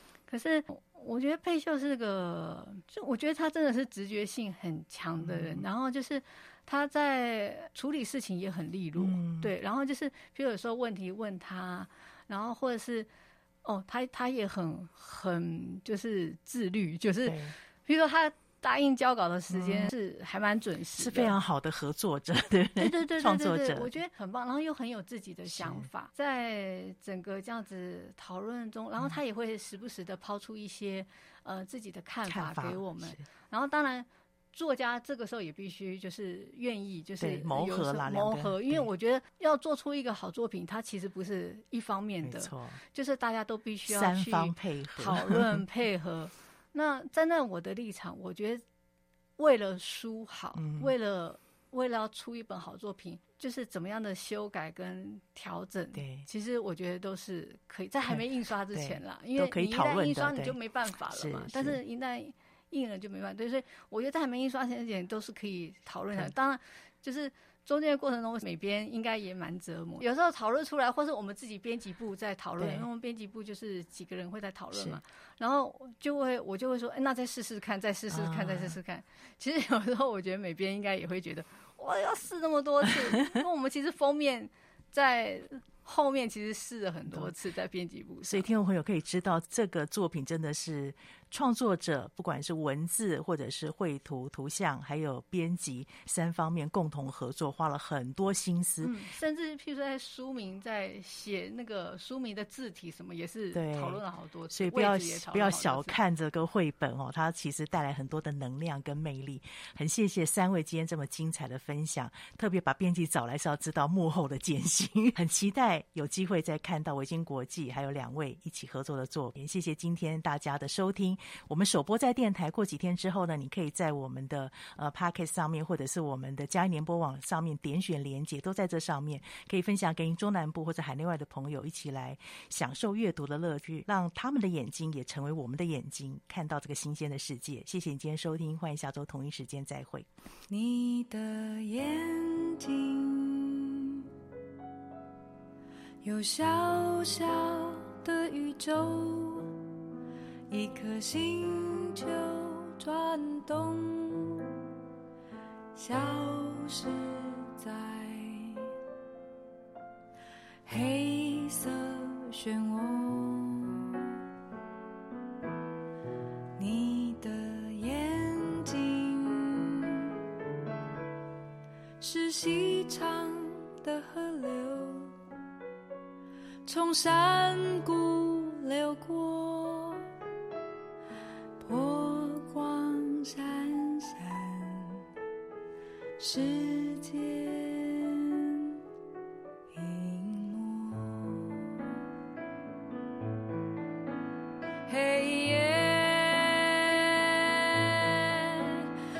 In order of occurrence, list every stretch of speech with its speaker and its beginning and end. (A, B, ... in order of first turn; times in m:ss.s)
0:00.3-0:13.1 A
0:05.2-0:05.7 B
0:09.0-0:09.5 B
0:13.6-0:21.4 A
0:17.3-0:17.6 B
0:19.5-0:19.9 B
0:21.0-0:23.9 B
0:22.8-0:48.6 A
0:25.5-0:25.9 B
0:32.3-0:33.2 B
0:37.2-0:38.9 B
0:42.2-0:42.8 B
0:43.9-0:45.6 B
0:49.4-1:28.5 A
0:50.6-0:50.9 B
0:56.0-0:56.3 B
0:58.1-1:00.6 B
1:01.1-1:01.8 B
1:12.6-1:12.8 B
1:14.7-1:15.0 B
1:18.1-1:18.8 B
1:28.2-1:38.9 B
1:38.8-1:46.0 A
1:43.5-2:20.1 B
2:20.5-2:24.0 C
2:26.0-2:29.5 C
2:30.5-2:34.4 C
2:35.8-2:38.7 C
2:40.7-2:44.1 C
2:46.6-2:50.0 C
2:52.0-2:55.2 C
2:56.6-3:00.1 C
3:01.6-3:05.1 C
3:06.2-3:08.4 C
3:09.7-3:11.9 C
3:14.9-3:18.9 C